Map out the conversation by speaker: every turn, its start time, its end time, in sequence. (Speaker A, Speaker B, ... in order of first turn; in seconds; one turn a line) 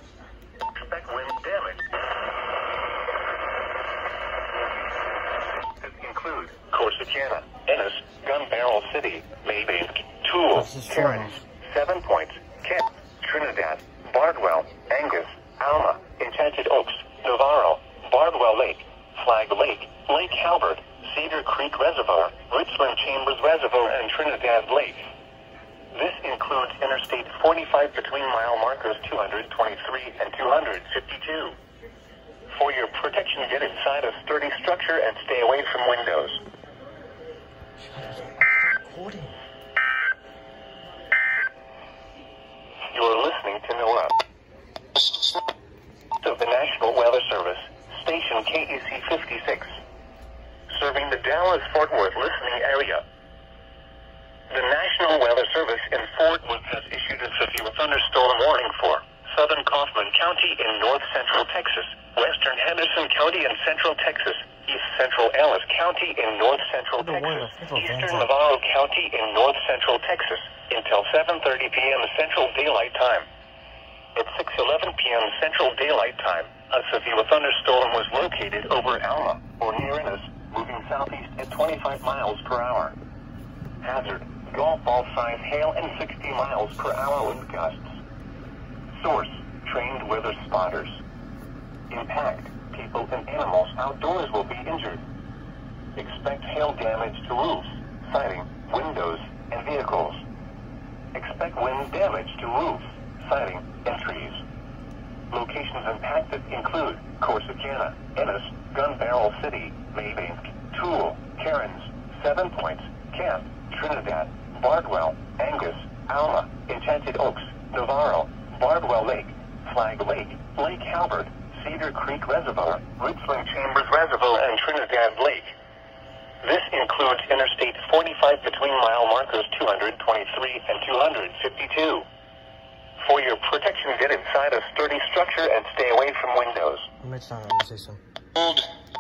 Speaker A: 0.8-1.9
Speaker A: 5.8-25.0
Speaker B: 10.7-11.3
Speaker A: 25.9-31.6
Speaker A: 32.5-36.4
Speaker B: 38.0-39.3
Speaker A: 42.9-44.1
Speaker A: 46.2-49.8
Speaker A: 50.7-53.0
Speaker A: 54.5-73.3
Speaker B: 67.3-67.9
Speaker A: 74.2-83.0
Speaker A: 83.8-87.9
Speaker A: 89.0-91.0
Speaker A: 91.9-95.0
Speaker A: 96.0-100.2
Speaker A: 101.1-104.4
Speaker A: 105.3-125.5
Speaker A: 126.4-132.1
Speaker A: 133.0-136.9
Speaker B: 137.0-138.0